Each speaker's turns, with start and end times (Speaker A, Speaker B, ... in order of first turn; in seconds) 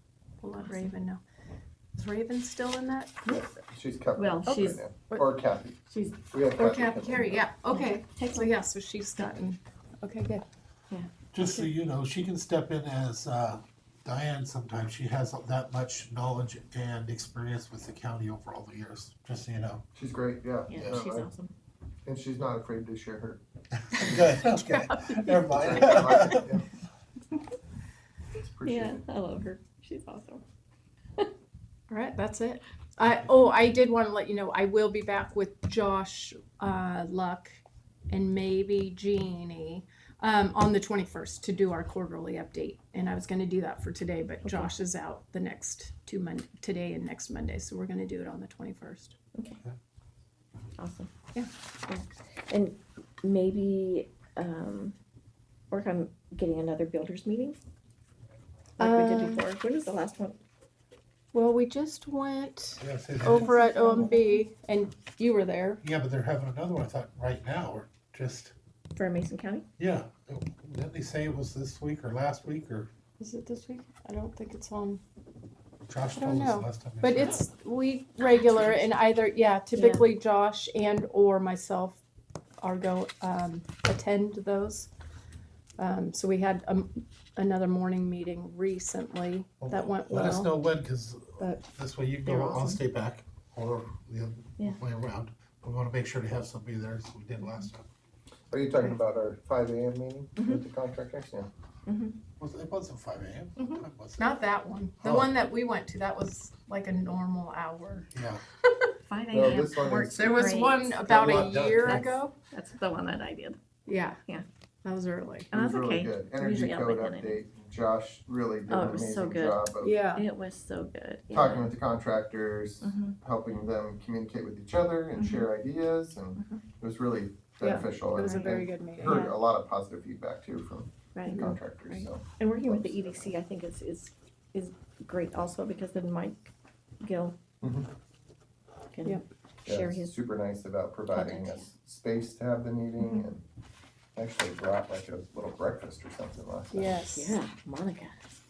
Speaker A: 0.4-1.2, 1.9-3.2, 6.6-10.4, 24.5-25.6, 31.9-49.1, 58.8-59.4, 61.3-65.8, 73.2-75.0, 76.2-82.0, 82.6-84.9, 85.8-90.5, 104.2-108.1, 110.1-112.3, 113.8-114.2, 114.8-115.5, 119.8-120.3, 127.6-129.3, 131.2-131.5, 146.7-147.4
Speaker B: 0.6-0.9, 4.2-4.9, 5.9-6.2, 7.7-8.5, 20.7-21.5, 28.6-30.4, 44.4-44.8, 49.3-49.6, 50.8-51.1, 51.9-55.0, 55.7-57.6, 58.8-60.4, 63.4-64.4, 68.9-69.7, 78.4-78.8, 79.7-80.1, 92.2-92.8, 97.4-97.7, 100.4-100.6, 101.8-102.2, 109.0-113.6, 115.5-117.4, 118.7-121.7, 122.8-123.2, 125.1-125.5, 126.4-126.6, 128.2-129.4, 131.1-136.5, 137.0-137.4, 138.9-140.1, 141.1-141.7, 147.1-148.2
Speaker C: 3.2-7.4, 19.9-21.3, 22.0-23.4, 25.5-26.6, 28.3-29.0, 98.5-101.5, 109.3-110.4, 115.5-120.0, 121.3-133.3, 137.6-137.9, 139.7-143.4, 144.2-147.0
Speaker D: 11.3-19.8, 20.7-21.1, 23.9-26.5, 62.8-64.1, 65.8-68.5, 69.8-72.9, 75.9-77.4, 89.6-97.9, 102.4-104.3, 105.0-105.3, 108.1-108.4, 111.0-112.2